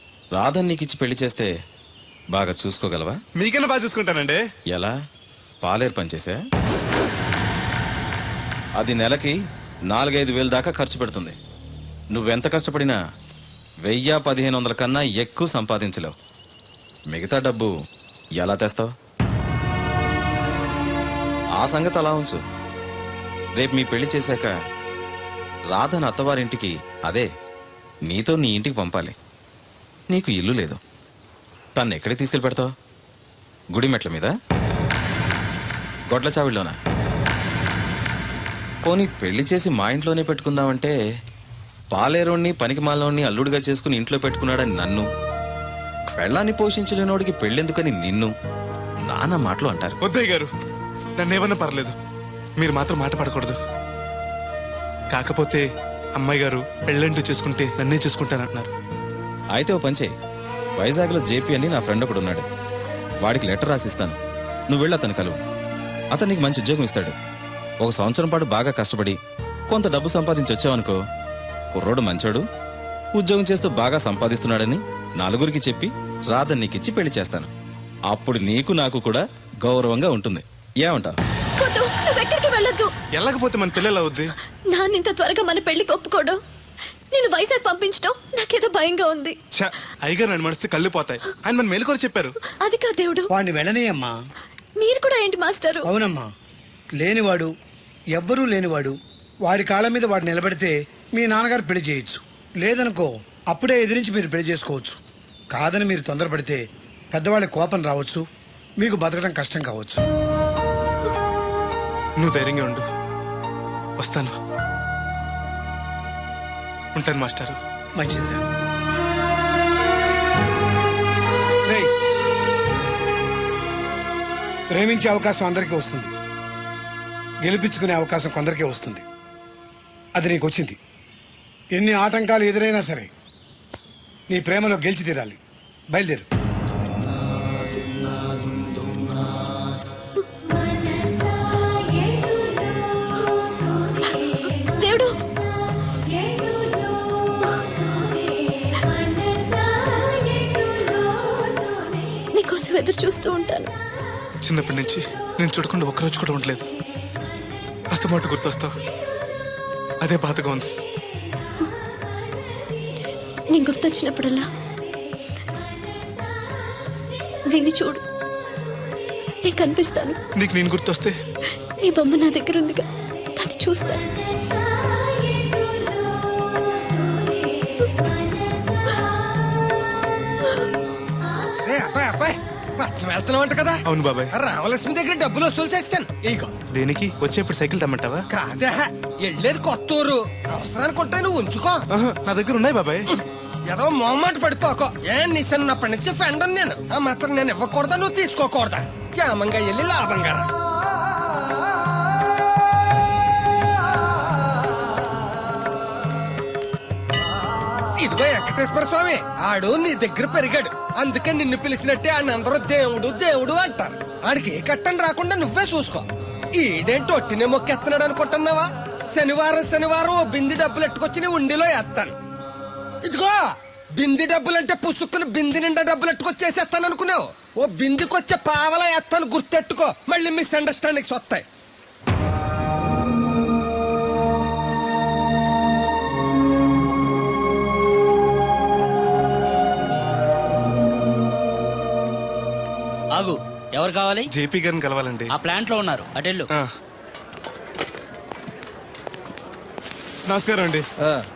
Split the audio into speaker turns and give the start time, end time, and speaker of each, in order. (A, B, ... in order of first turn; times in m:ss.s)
0:00.3-0:01.5 A
0:02.3-0:03.2 A
0:03.4-0:04.4 B
0:04.7-0:05.0 A
0:05.6-0:06.4 A
0:08.8-0:09.4 A
0:09.9-0:11.4 A
0:12.1-0:13.0 A
0:13.8-0:16.1 A
0:17.1-0:17.7 A
0:18.4-0:18.9 A
0:21.6-0:22.4 A
0:23.6-0:24.6 A
0:25.7-0:27.3 A
0:28.0-0:29.1 A
0:30.1-0:30.8 A
0:31.8-0:32.7 A
0:33.7-0:34.3 A
0:36.1-0:36.8 A
0:38.8-0:40.9 A
0:41.9-0:45.1 A
0:46.2-0:48.3 A
0:49.0-0:50.0 A
0:50.0-0:50.5 B
0:51.2-0:51.9 B
0:52.6-0:53.6 B
0:55.1-0:55.6 B
0:56.2-0:58.7 B
0:59.5-1:00.1 A
1:00.8-1:02.4 A
1:03.2-1:04.2 A
1:04.7-1:05.4 A
1:06.1-1:07.2 A
1:07.8-1:09.2 A
1:09.7-1:11.0 A
1:11.7-1:12.4 A
1:13.2-1:17.5 A
1:18.1-1:21.2 A
1:21.6-1:22.9 C
1:23.1-1:24.3 B
1:24.7-1:26.4 C
1:27.1-1:29.4 C
1:29.5-1:32.3 B
1:32.6-1:33.3 C
1:33.3-1:34.1 D
1:34.8-1:35.9 C
1:35.8-1:36.3 D
1:37.0-1:37.5 D
1:38.1-1:45.0 D
1:45.5-1:46.6 D
1:47.1-1:48.2 D
1:48.8-1:50.0 D
1:52.2-1:52.8 B
1:54.0-1:54.3 B
1:56.9-1:57.6 B
1:58.0-1:58.4 D
2:04.7-2:06.1 D
2:07.4-2:09.0 D
2:10.2-2:10.8 D
2:11.7-2:13.1 D
2:14.3-2:15.4 D
2:15.9-2:16.2 D
2:24.0-2:25.1 C
2:29.7-2:31.1 C
2:32.3-2:33.7 C
2:34.4-2:36.6 B
2:37.9-2:38.7 B
2:40.0-2:40.6 B
2:43.5-2:44.5 C
2:47.5-2:48.0 C
2:49.4-2:50.2 C
2:50.4-2:51.2 B
2:51.8-2:54.1 C
3:01.6-3:03.8 E
3:03.9-3:04.3 B
3:04.3-3:06.5 E
3:06.7-3:08.2 B
3:08.3-3:11.8 E
3:11.9-3:13.1 B
3:13.7-3:20.4 E
3:28.0-3:36.0 E
3:36.6-3:42.1 E
3:43.0-3:43.4 E
3:43.9-3:51.4 E
4:03.2-4:04.3 F
4:04.3-4:05.3 B
4:05.3-4:06.5 F
4:10.3-4:10.8 B